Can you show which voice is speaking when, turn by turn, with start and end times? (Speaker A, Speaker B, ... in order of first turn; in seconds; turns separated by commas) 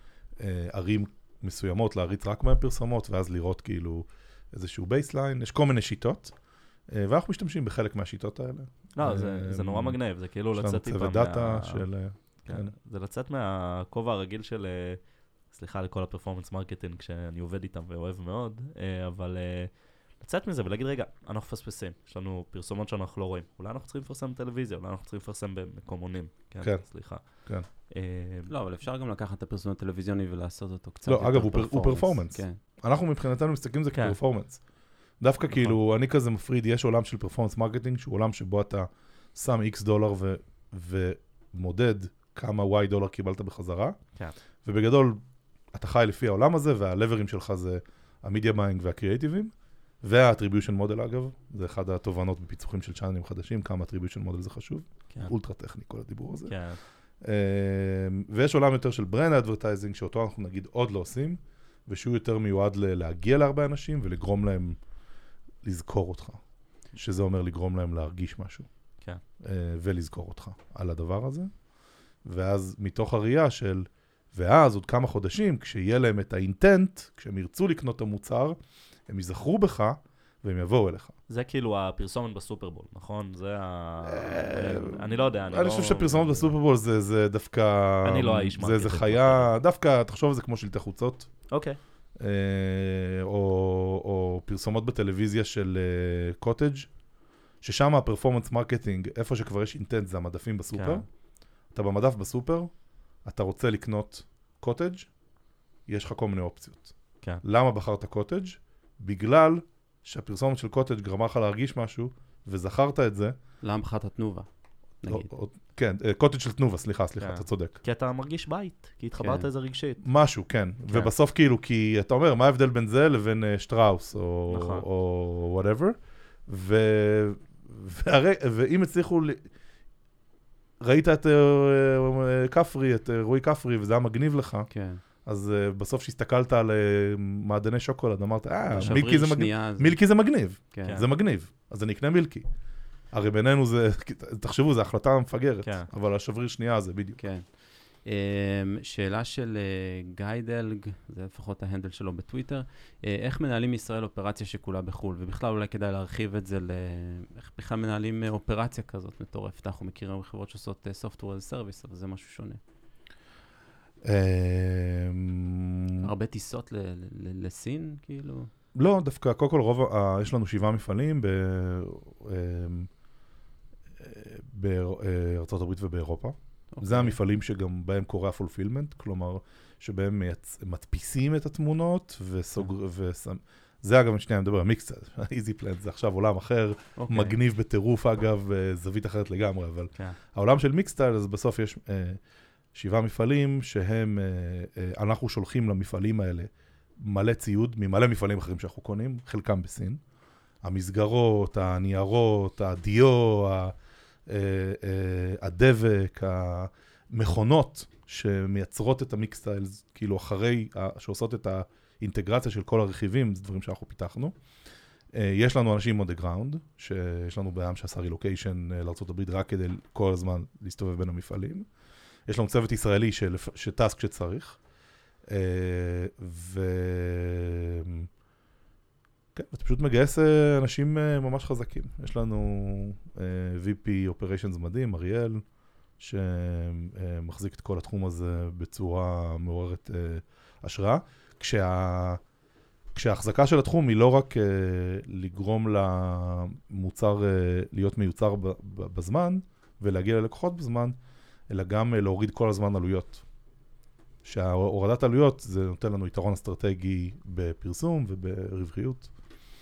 Speaker A: 0.4-6.3, Speaker A: 6.9-10.0, Speaker B: 8.9-11.9, Speaker A: 10.5-12.7, Speaker B: 12.4-28.5, Speaker A: 26.6-27.7, Speaker C: 28.5-32.6, Speaker A: 31.1-34.6, Speaker B: 33.9-34.2, Speaker A: 35.2-44.0, Speaker B: 35.5-35.8, Speaker A: 44.6-45.2, Speaker A: 45.7-56.6, Speaker B: 56.5-56.8, Speaker A: 57.2-64.8, Speaker A: 65.6-66.4, Speaker A: 67.0-68.7, Speaker A: 69.4-71.5, Speaker A: 72.2-78.6, Speaker A: 79.1-81.2, Speaker B: 81.3-86.5, Speaker A: 84.0-91.3, Speaker B: 88.0-89.5, Speaker B: 91.5-91.8, Speaker A: 92.2-96.9, Speaker A: 97.6-101.0, Speaker B: 100.7-101.0, Speaker A: 101.7-102.7, Speaker A: 103.2-105.1, Speaker A: 105.9-113.4, Speaker C: 113.6-114.5, Speaker C: 115.0-115.3, Speaker A: 115.1-117.8, Speaker B: 117.2-120.0, Speaker C: 119.2-119.5, Speaker A: 120.0-129.5, Speaker B: 124.5-124.9, Speaker A: 130.8-134.7, Speaker C: 134.7-135.0, Speaker A: 135.2-142.5, Speaker C: 138.8-140.0, Speaker C: 140.7-141.0, Speaker A: 143.1-147.2, Speaker C: 147.2-162.6, Speaker A: 164.0-166.1, Speaker C: 166.0-168.5, Speaker A: 168.7-172.9, Speaker A: 174.0-192.2, Speaker C: 176.7-177.2, Speaker C: 187.0-187.4, Speaker A: 192.7-196.5, Speaker A: 197.0-200.0, Speaker A: 200.6-203.8, Speaker A: 204.3-214.3, Speaker A: 215.1-221.7, Speaker A: 222.3-224.6, Speaker A: 225.3-228.1, Speaker A: 229.3-235.4, Speaker A: 236.0-242.2, Speaker A: 242.9-251.0, Speaker A: 251.5-253.2, Speaker A: 254.2-259.1